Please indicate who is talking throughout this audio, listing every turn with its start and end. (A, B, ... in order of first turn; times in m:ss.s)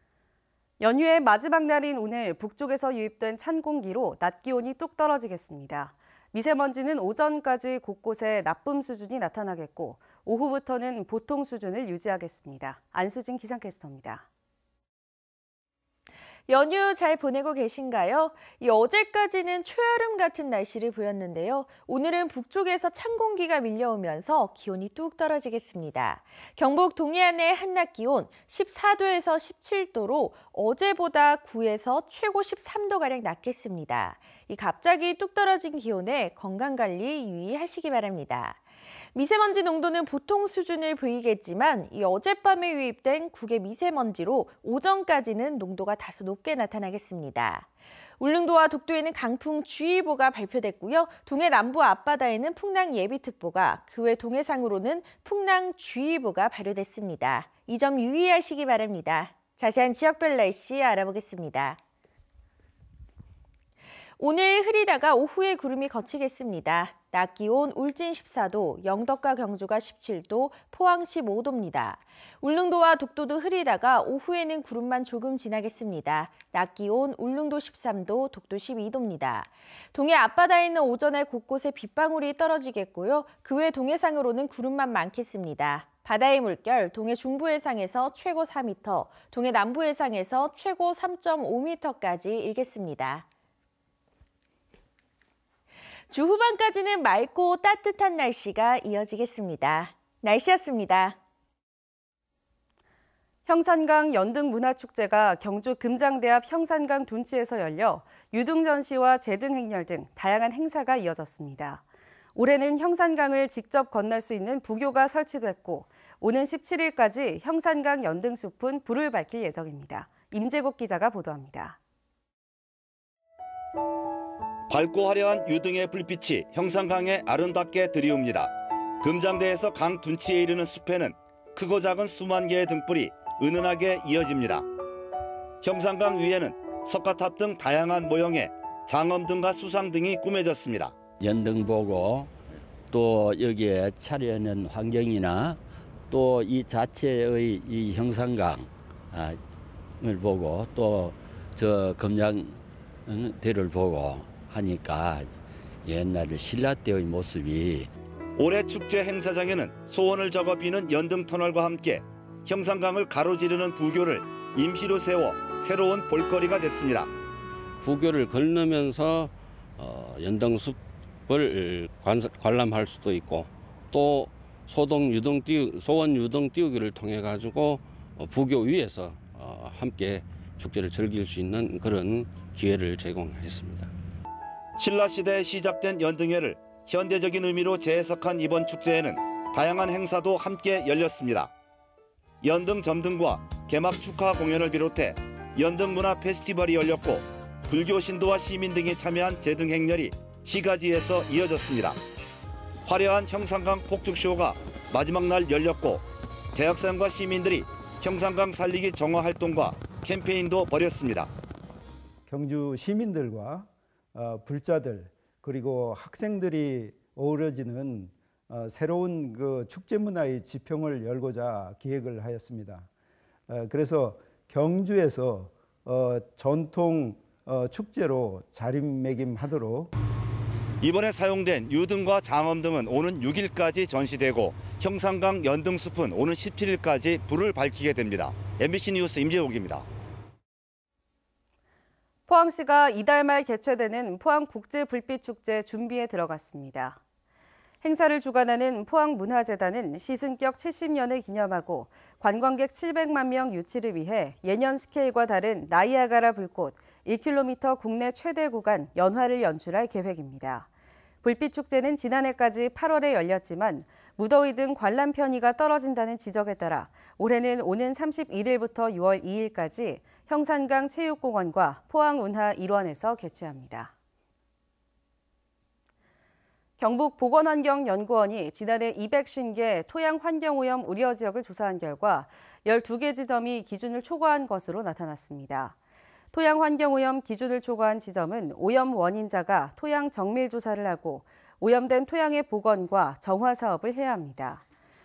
0:00.8-0:14.2 A
0:16.5-0:38.6 B
0:39.1-1:01.8 B
1:04.2-1:33.3 B
1:36.1-1:41.2 B
1:43.5-1:51.8 A
1:52.4-2:01.8 A
2:04.7-2:14.7 C
2:15.6-2:21.0 C
2:21.2-2:22.3 D
2:22.9-2:25.6 D
2:26.1-2:29.4 D
2:30.0-2:35.3 D
2:35.9-2:37.9 D
2:38.4-2:47.1 C
2:47.8-3:03.9 E
3:04.8-3:11.5 C
3:12.4-3:22.0 C
3:22.9-3:31.3 C
3:32.3-3:42.9 F
3:43.5-3:49.9 F
3:50.8-3:59.9 C
4:02.3-4:07.0 A
4:07.8-4:20.7 A
4:21.2-4:33.9 A
4:36.8-4:45.8 A
4:46.3-4:54.6 A